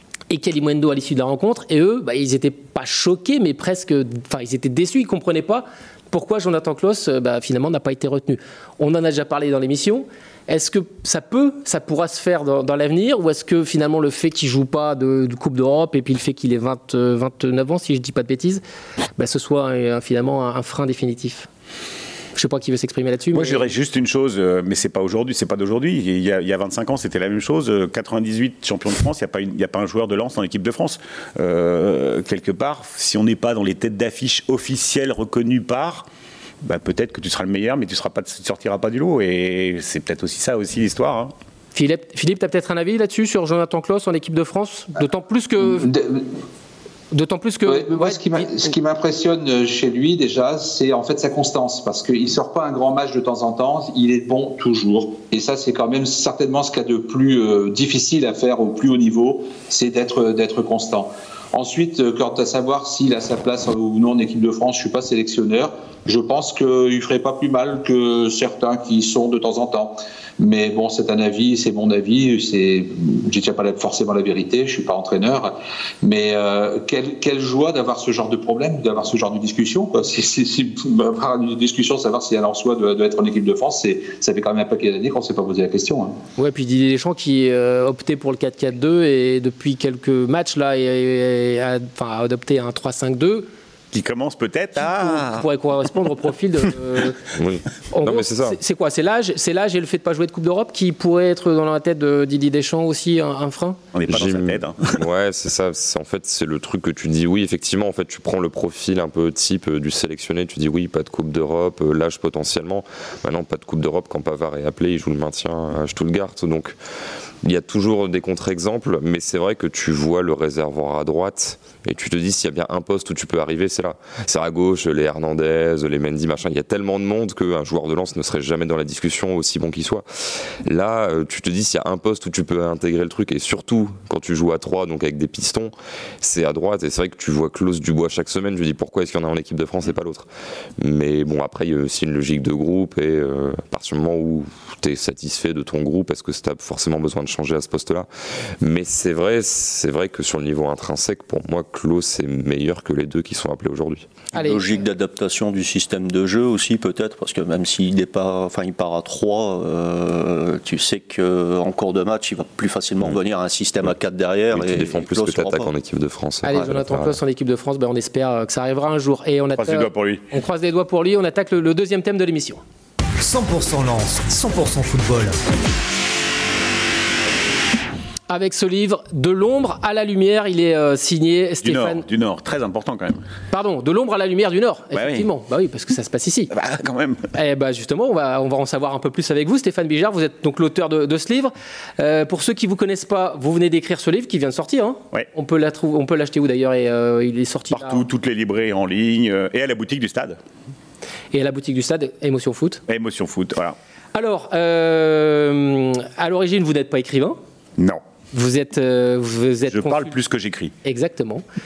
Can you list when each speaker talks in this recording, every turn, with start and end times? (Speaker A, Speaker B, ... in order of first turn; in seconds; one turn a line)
Speaker A: 0.3-18.6
Speaker A: 19.2-21.5
Speaker A: 22.3-23.6
Speaker B: 23.3-36.1
Speaker B: 36.6-41.3
Speaker A: 41.7-45.9
Speaker C: 45.7-46.2
Speaker A: 47.1-48.7
Speaker C: 47.6-86.2
Speaker A: 86.4-93.5
Speaker B: 93.9-95.5
Speaker A: 94.8-97.2
Speaker D: 97.3-98.6
Speaker A: 97.9-103.8
Speaker B: 103.9-104.9
Speaker D: 104.1-116.7
Speaker D: 117.4-130.0
Speaker D: 130.6-140.3
Speaker D: 140.8-148.1
Speaker D: 148.6-154.1
Speaker A: 154.3-154.7
Speaker E: 154.3-165.7
Speaker D: 164.5-167.2
Speaker A: 166.4-172.6
Speaker B: 169.6-170.2
Speaker F: 173.2-175.4
Speaker A: 178.3-182.0
Speaker B: 181.6-183.2
Speaker A: 183.5-186.5
Speaker B: 184.9-185.3
Speaker B: 186.5-187.3
Speaker A: 187.3-198.0
Speaker B: 197.7-200.4
Speaker A: 201.3-202.8
Speaker B: 202.9-203.8
Speaker A: 204.1-207.4
Speaker A: 208.3-210.2
Speaker B: 209.7-210.7
Speaker A: 210.8-211.4